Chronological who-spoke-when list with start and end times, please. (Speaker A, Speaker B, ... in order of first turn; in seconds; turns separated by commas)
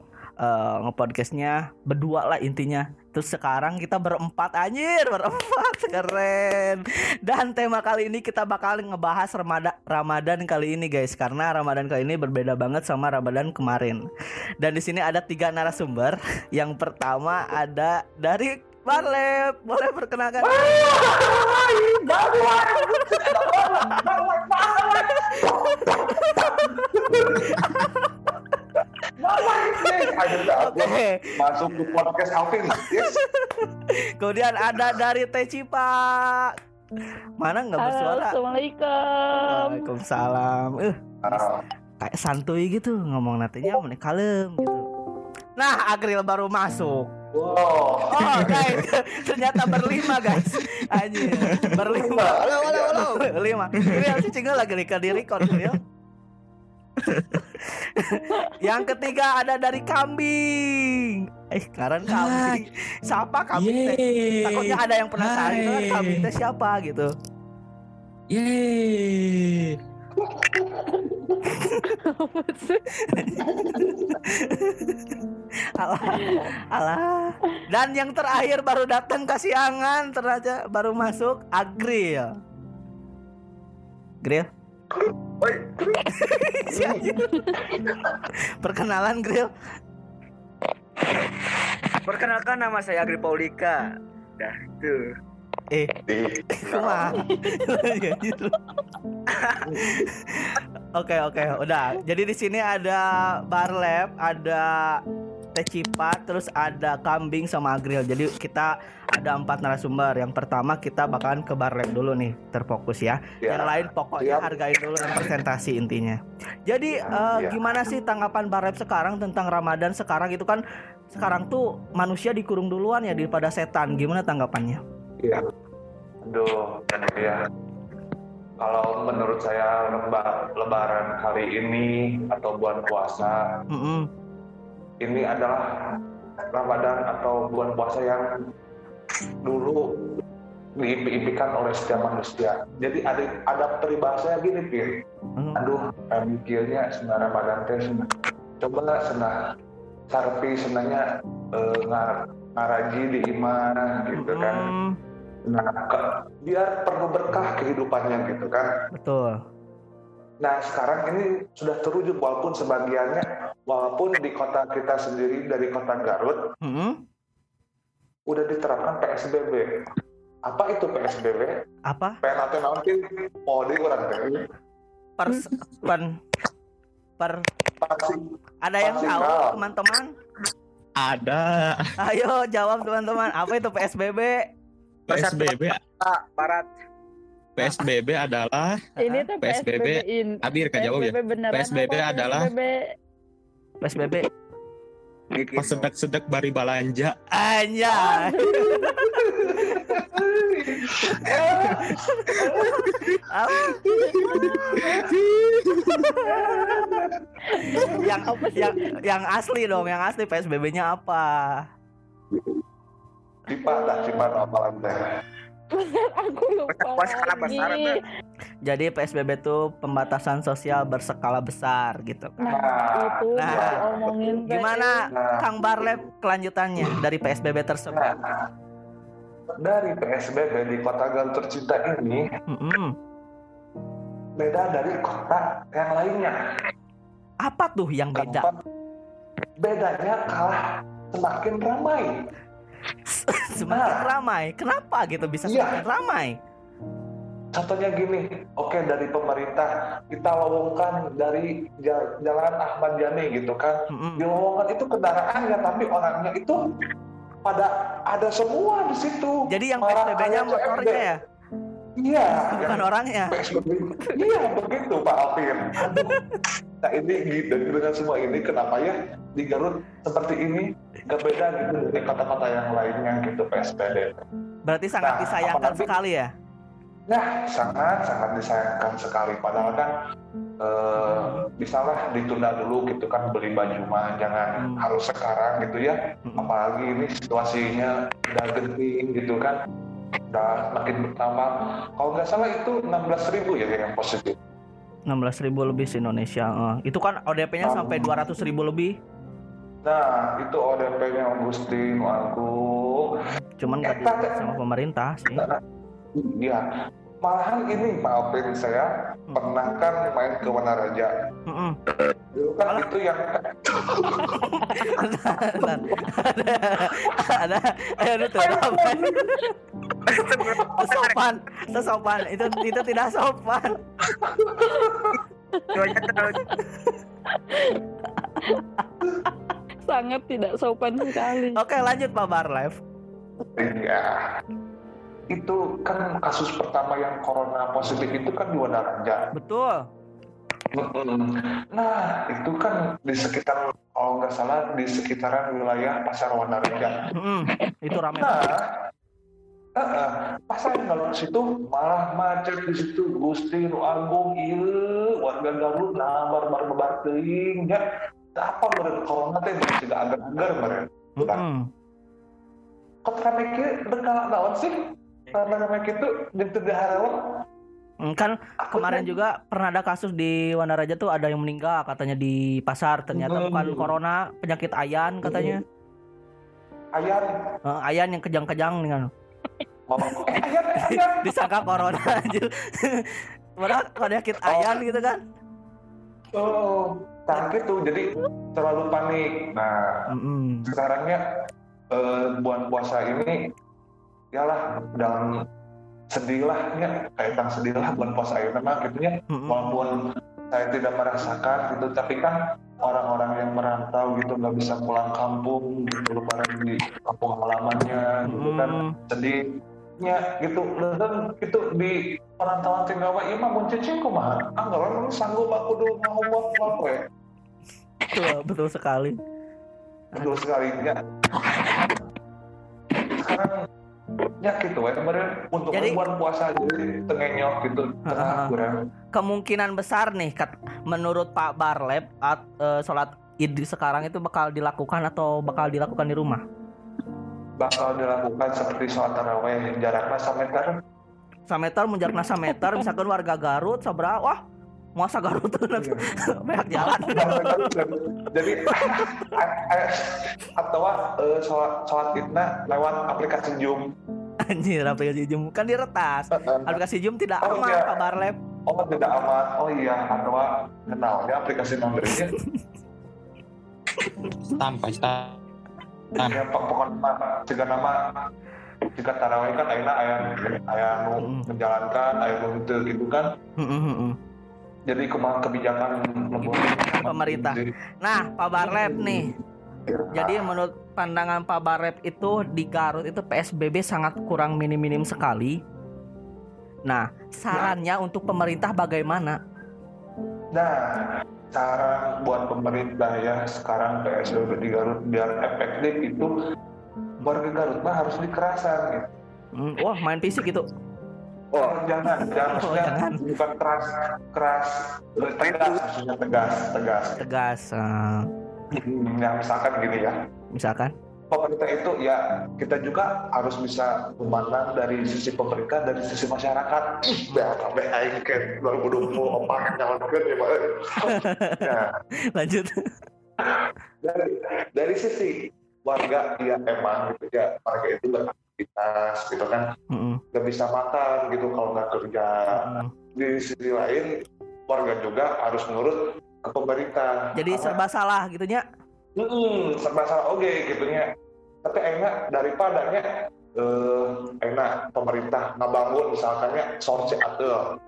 Speaker A: 0.4-14.0, Speaker A: 14.6-20.9, Speaker B: 20.4-27.6, Speaker A: 22.6-24.1, Speaker A: 25.1-28.1, Speaker B: 29.2-33.2, Speaker A: 30.6-32.0, Speaker A: 32.8-36.5, Speaker A: 37.4-38.3, Speaker C: 37.8-39.9, Speaker A: 39.5-41.5, Speaker B: 41.2-41.6, Speaker A: 42.0-44.9, Speaker A: 45.6-47.1, Speaker B: 47.3-48.8, Speaker A: 48.1-55.8, Speaker D: 49.9-50.6, Speaker D: 51.2-51.7, Speaker B: 51.9-53.2, Speaker D: 55.4-55.7, Speaker D: 57.0-57.4, Speaker A: 57.6-67.1, Speaker D: 62.1-62.6, Speaker D: 63.5-66.3, Speaker D: 68.3-69.8, Speaker B: 70.2-71.5, Speaker A: 71.4-72.0, Speaker C: 71.8-73.0, Speaker A: 73.0-75.2, Speaker A: 75.8-82.3, Speaker C: 76.1-76.5, Speaker A: 84.2-84.5, Speaker E: 85.4-86.1, Speaker A: 86.1-87.3, Speaker E: 86.7-87.0, Speaker C: 87.3-87.6, Speaker B: 87.8-88.1, Speaker A: 88.6-89.5, Speaker E: 92.0-93.8, Speaker E: 94.4-95.1, Speaker B: 96.1-97.1, Speaker A: 96.5-98.6, Speaker E: 99.3-99.6, Speaker B: 99.7-100.0, Speaker A: 99.7-105.0, Speaker A: 105.6-120.6, Speaker B: 113.4-115.3, Speaker B: 117.1-117.7, Speaker A: 121.1-124.8, Speaker B: 126.2-127.4, Speaker B: 128.6-133.5, Speaker A: 133.7-134.1, Speaker B: 135.0-135.7, Speaker B: 136.5-138.3, Speaker B: 139.4-139.9, Speaker B: 140.8-145.0, Speaker A: 145.4-145.7, Speaker B: 145.6-148.1, Speaker B: 148.6-149.4, Speaker B: 150.1-154.7, Speaker A: 154.2-155.0, Speaker B: 155.5-158.7, Speaker A: 158.9-159.4, Speaker B: 160.4-166.4, Speaker A: 166.6-167.0, Speaker B: 168.3-169.7, Speaker B: 170.5-171.6, Speaker A: 171.9-172.2, Speaker B: 172.2-174.5, Speaker A: 175.2-176.2, Speaker A: 177.2-177.4, Speaker B: 177.8-178.2, Speaker A: 178.6-180.1, Speaker B: 178.8-179.7, Speaker D: 181.0-181.9, Speaker A: 182.0-184.5, Speaker E: 185.1-186.7, Speaker D: 185.1-185.8, Speaker D: 187.6-192.5, Speaker C: 189.0-192.9, Speaker A: 193.8-194.3, Speaker E: 195.3-195.9, Speaker D: 195.6-197.2, Speaker A: 197.3-200.0, Speaker B: 199.2-202.9, Speaker A: 201.1-204.2, Speaker D: 204.2-206.1, Speaker B: 204.3-205.1, Speaker A: 205.9-206.8, Speaker B: 206.3-208.0, Speaker C: 207.5-208.1, Speaker A: 207.6-211.6, Speaker B: 213.5-215.0, Speaker C: 213.6-214.2, Speaker C: 215.7-218.0, Speaker E: 216.7-218.0, Speaker A: 218.6-222.5, Speaker C: 222.4-225.1, Speaker B: 222.4-224.2, Speaker A: 223.4-223.8, Speaker A: 224.5-228.1, Speaker B: 225.1-225.4, Speaker B: 227.9-228.5, Speaker B: 229.6-232.3, Speaker A: 232.5-233.0, Speaker B: 234.4-236.4, Speaker A: 237.4-238.5, Speaker B: 238.2-238.6, Speaker B: 239.6-242.2, Speaker A: 243.1-246.4, Speaker B: 243.7-244.1, Speaker B: 245.5-245.8, Speaker B: 247.5-256.6, Speaker A: 253.9-254.2, Speaker B: 257.4-261.1, Speaker A: 259.5-261.2, Speaker B: 262.0-266.2, Speaker A: 262.5-263.4, Speaker B: 266.8-274.2, Speaker A: 274.7-276.3, Speaker B: 275.0-275.9, Speaker B: 277.1-279.9, Speaker B: 280.6-289.6, Speaker A: 281.0-281.5, Speaker A: 284.6-284.9, Speaker A: 286.3-286.5, Speaker B: 290.3-294.4, Speaker A: 295.1-299.0, Speaker B: 297.6-298.2, Speaker B: 299.8-303.2, Speaker A: 303.6-305.5, Speaker B: 303.8-304.5, Speaker B: 305.3-305.6, Speaker B: 306.1-306.7, Speaker B: 307.2-311.1, Speaker A: 311.5-311.8, Speaker B: 312.3-314.5, Speaker A: 314.3-319.5, Speaker B: 315.6-316.0, Speaker B: 318.7-319.0, Speaker E: 320.1-321.3, Speaker A: 320.2-323.8, Speaker B: 324.1-325.2, Speaker C: 325.6-326.0, Speaker E: 325.7-326.4, Speaker C: 327.5-327.8, Speaker C: 329.9-331.6, Speaker A: 331.5-332.8, Speaker B: 333.6-334.2, Speaker B: 335.3-339.3, Speaker A: 339.3-339.9, Speaker B: 340.7-347.0, Speaker A: 347.1-348.4, Speaker B: 348.2-348.7, Speaker B: 349.8-357.8, Speaker B: 358.4-361.4, Speaker A: 361.2-361.7, Speaker B: 363.1-367.2, Speaker A: 368.0-375.6, Speaker B: 368.7-369.1, Speaker B: 373.1-373.9, Speaker B: 375.2-375.6, Speaker B: 376.9-377.3, Speaker A: 377.6-379.1, Speaker B: 379.9-381.3, Speaker A: 380.8-385.2, Speaker B: 384.5-384.8, Speaker B: 386.3-390.0, Speaker A: 390.1-390.7, Speaker B: 390.6-391.2, Speaker B: 391.9-393.4, Speaker B: 394.3-395.4, Speaker B: 396.1-409.4, Speaker A: 399.3-399.8, Speaker A: 408.2-409.0, Speaker B: 410.0-417.1, Speaker A: 418.1-419.2, Speaker B: 420.1-422.0, Speaker B: 423.1-423.7, Speaker B: 424.4-428.9, Speaker A: 425.7-426.0, Speaker A: 428.1-428.5, Speaker A: 429.1-436.4, Speaker B: 437.6-440.8, Speaker A: 441.5-444.4, Speaker A: 445.0-447.8, Speaker B: 445.8-446.1, Speaker B: 446.7-453.9, Speaker A: 448.7-449.3, Speaker A: 454.4-458.4, Speaker B: 456.3-456.8, Speaker B: 457.4-458.1, Speaker B: 458.7-462.4, Speaker D: 464.5-465.4, Speaker B: 466.2-468.1, Speaker B: 469.0-473.3, Speaker A: 471.2-471.5, Speaker A: 473.6-474.2, Speaker B: 474.9-477.7, Speaker A: 476.4-479.3, Speaker B: 478.6-479.3, Speaker B: 479.9-480.5, Speaker A: 480.1-485.6, Speaker A: 486.9-489.4, Speaker B: 490.5-496.3, Speaker B: 497.2-499.1, Speaker A: 499.6-500.7, Speaker E: 501.5-501.8, Speaker B: 501.6-507.2, Speaker A: 502.2-503.2, Speaker E: 505.4-505.8, Speaker A: 507.2-508.3, Speaker B: 508.7-510.2, Speaker A: 510.5-510.9, Speaker B: 511.3-521.9, Speaker A: 519.1-519.5, Speaker A: 521.0-521.7, Speaker A: 522.4-522.9, Speaker B: 523.4-529.7, Speaker A: 529.9-530.2, Speaker B: 530.3-534.1, Speaker A: 532.5-532.9, Speaker B: 534.7-537.8, Speaker A: 537.4-538.6, Speaker B: 539.2-541.1, Speaker B: 541.6-547.8